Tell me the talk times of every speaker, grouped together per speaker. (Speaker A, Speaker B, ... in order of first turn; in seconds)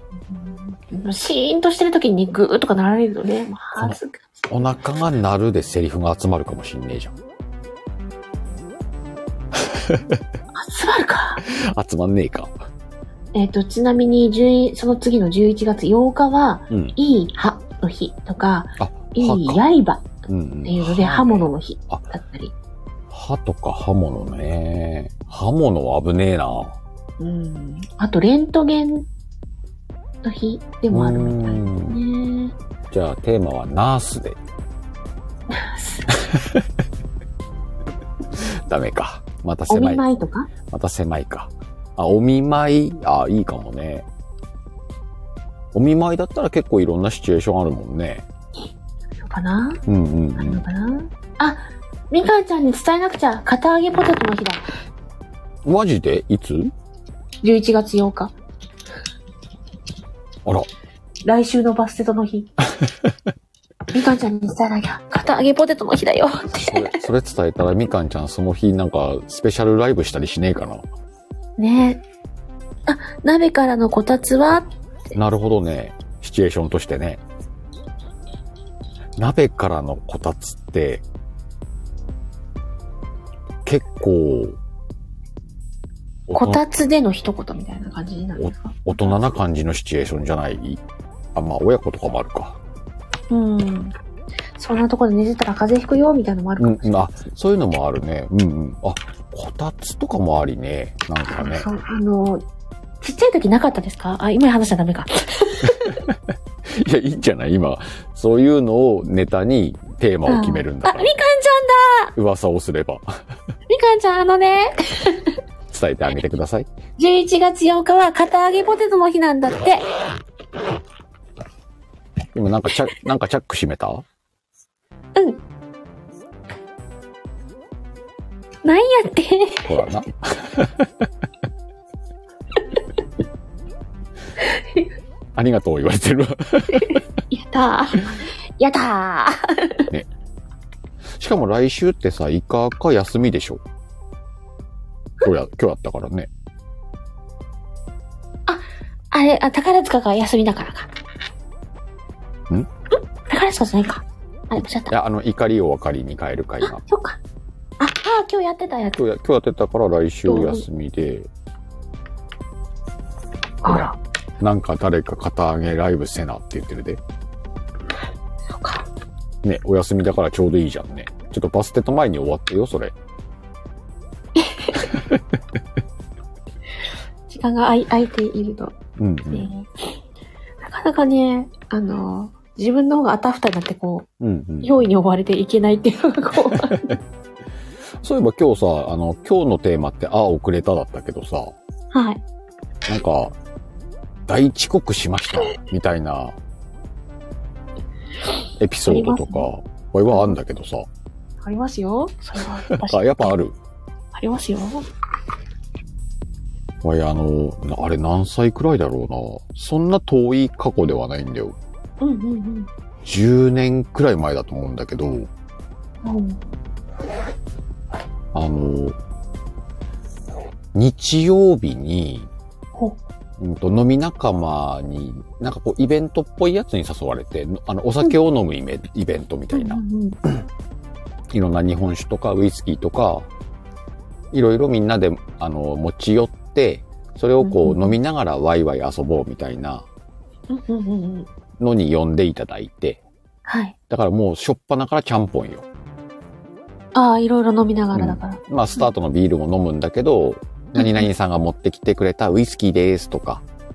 Speaker A: 0.3-4.7, 10.5-11.5, 13.3-22.5, 27.2-29.1, 30.2-32.5, 35.5-36.1, 39.7-40.5, 49.2-49.8, 50.4-54.6, 57.4-58.3, 61.2-62.5, 63.9-67.0, 71.6-72.0, 72.9-74.7, 86.3-89.2, 93.3-93.9, 94.6-97.0, 101.3-102.4, 103.0-106.0, 110.3-112.1, 113.7-115.3, 117.0-119.8, 125.2-125.4, 128.6-129.8, 134.4-134.9, 136.7-139.9, 148.5-150.9, 153.3-154.9, 156.6-157.2, 157.8-159.0, 160.2-160.7, 163.6-164.0, 168.5-168.8, 174.4-174.8, 177.3-178.8, 179.3-179.7, 180.6-184.1, 184.6-187.0, 191.9-192.2, 198.8-199.5, 200.1-200.3, 201.4-203.3, 204.1-204.8, 212.0-212.7, 216.0-216.4, 229.5-230.2, 237.4-238.0, 240.5-241.3, 243.5-243.7, 246.9-248.8, 250.8-251.1
Speaker B: 4.5-7.1, 9.6-10.2, 11.4-12.6, 18.8-19.6, 20.3-22.1, 23.1-26.8, 30.9-32.0, 32.9-34.4, 36.1-36.6, 38.4-40.0, 40.7-44.0, 45.7-48.3, 49.9-50.6, 55.6-56.7, 62.8-63.1, 66.6-70.8, 75.1-77.2, 79.2-81.0, 83.6-84.6, 86.3-86.6, 88.4-90.8, 91.3-92.6, 96.6-101.7, 105.6-111.1, 112.2-113.0, 115.7-116.7, 122.3-124.0, 129.6-130.9, 135.3-137.0, 141.2-143.6, 145.2-146.3, 154.8-156.8, 158.9-161.3, 163.6-167.0, 169.4-172.9, 174.9-175.2, 179.0-179.5, 184.2-184.7, 186.5-186.9, 188.0-191.5, 192.9-193.3, 194.3-196.3, 198.6-200.9, 202.7-203.5, 206.8-211.6, 213.0-215.3, 218.3-218.9, 220.7-222.3, 223.4-229.8, 231.3-233.3, 234.3-239.8, 241.6-243.0, 243.9-245.7, 247.9-253.4